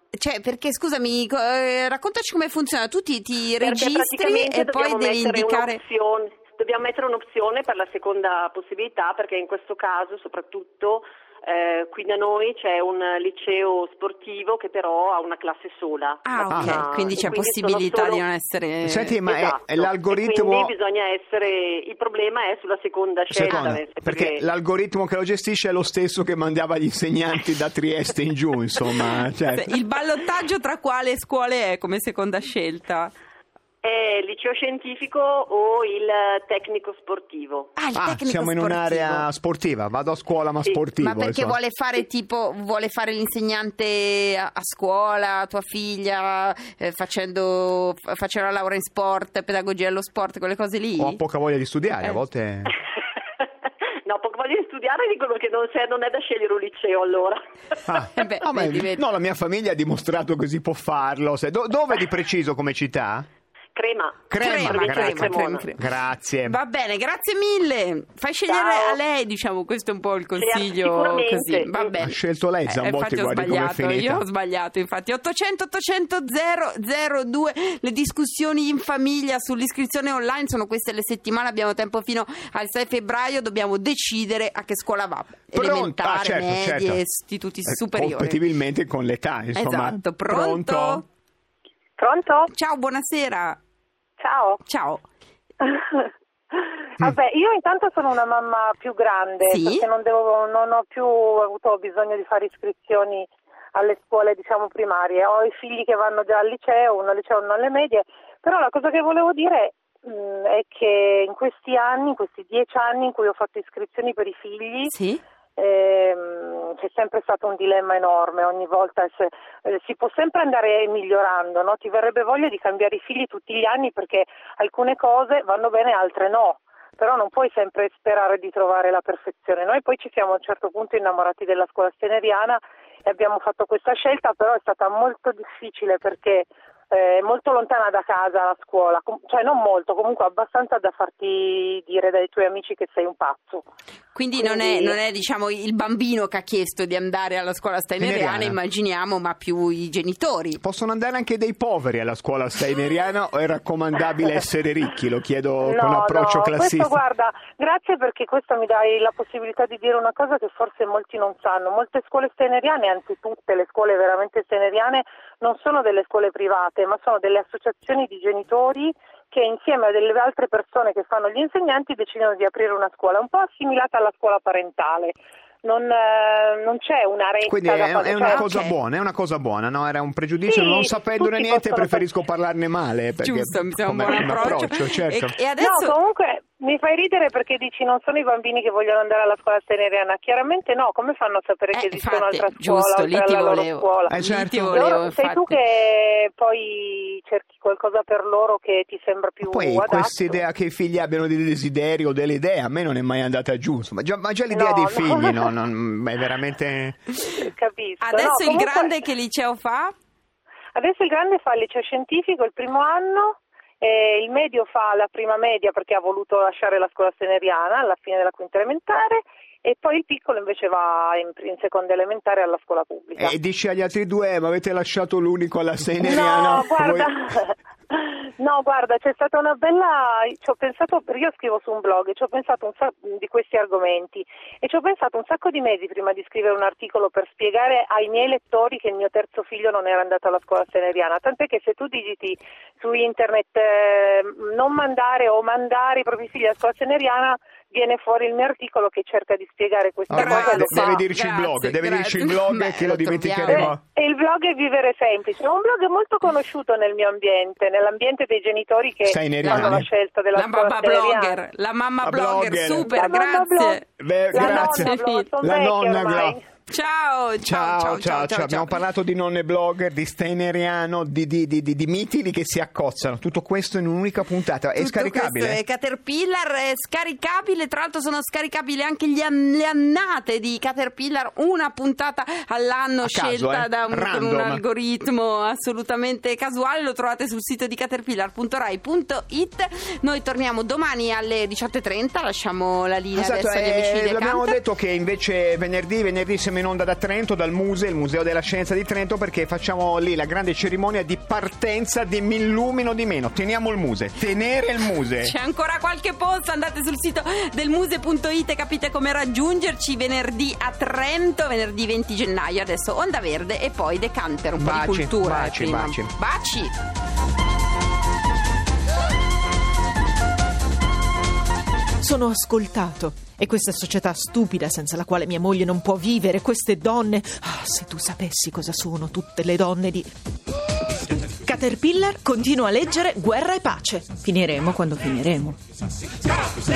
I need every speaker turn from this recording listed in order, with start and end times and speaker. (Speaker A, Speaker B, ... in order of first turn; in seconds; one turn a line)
Speaker A: 0.2-5.8
Speaker B: 3.6-18.2
Speaker A: 16.2-19.2
Speaker C: 16.5-16.8
Speaker C: 18.8-20.7
Speaker B: 19.2-24.4
Speaker C: 23.3-29.8
Speaker A: 29.5-33.1
Speaker B: 33.8-37.7
Speaker A: 37.8-39.2
Speaker C: 37.9-41.6
Speaker A: 41.0-51.2
Speaker C: 51.0-52.7
Speaker B: 54.0-57.4
Speaker C: 57.9-63.3
Speaker A: 58.1-59.0
Speaker B: 63.7-65.7
Speaker C: 64.3-66.6
Speaker A: 64.4-65.8
Speaker A: 66.4-88.4
Speaker B: 68.5-69.0
Speaker B: 70.4-71.9
Speaker C: 72.0-74.2
Speaker C: 85.5-87.0
Speaker C: 87.7-91.0
Speaker A: 89.5-91.0
Speaker D: 92.0-92.5
Speaker A: 92.5-93.6
Speaker D: 94.2-94.6
Speaker A: 94.7-95.0
Speaker D: 95.6-114.9
Speaker A: 99.4-99.9
Speaker A: 114.8-115.2
Speaker D: 115.6-143.7
Speaker A: 144.1-150.6
Speaker D: 144.4-145.0
Speaker C: 148.0-148.6
Speaker C: 150.6-157.0
Speaker D: 155.6-178.4
Speaker C: 177.4-185.3
Speaker A: 178.2-178.8
Speaker D: 180.4-182.1
Speaker A: 183.2-185.9
Speaker D: 184.1-184.5
Speaker D: 185.6-200.4
Speaker A: 191.7-195.6
Speaker C: 194.1-194.8
Speaker C: 199.4-207.0
Speaker D: 204.5-205.5
Speaker D: 207.2-209.0
Speaker A: 208.0-209.9
Speaker D: 210.7-223.3
Speaker C: 223.2-227.1
Speaker D: 226.0-251.0
Speaker C: 250.1-253.8
Speaker A: 250.1-253.7
Speaker D: 253.5-261.4
Speaker C: 259.0-259.9
Speaker A: 259.4-265.3
Speaker C: 262.0-262.9
Speaker D: 262.8-266.4
Speaker C: 264.0-266.4
Speaker A: 266.7-268.8
Speaker C: 267.4-275.6
Speaker A: 274.8-294.6
Speaker C: 283.0-284.6
Speaker C: 293.1-305.3
Speaker A: 305.2-316.7
Speaker C: 314.6-316.1
Speaker E: 322.0-330.1
Speaker E: 331.4-335.6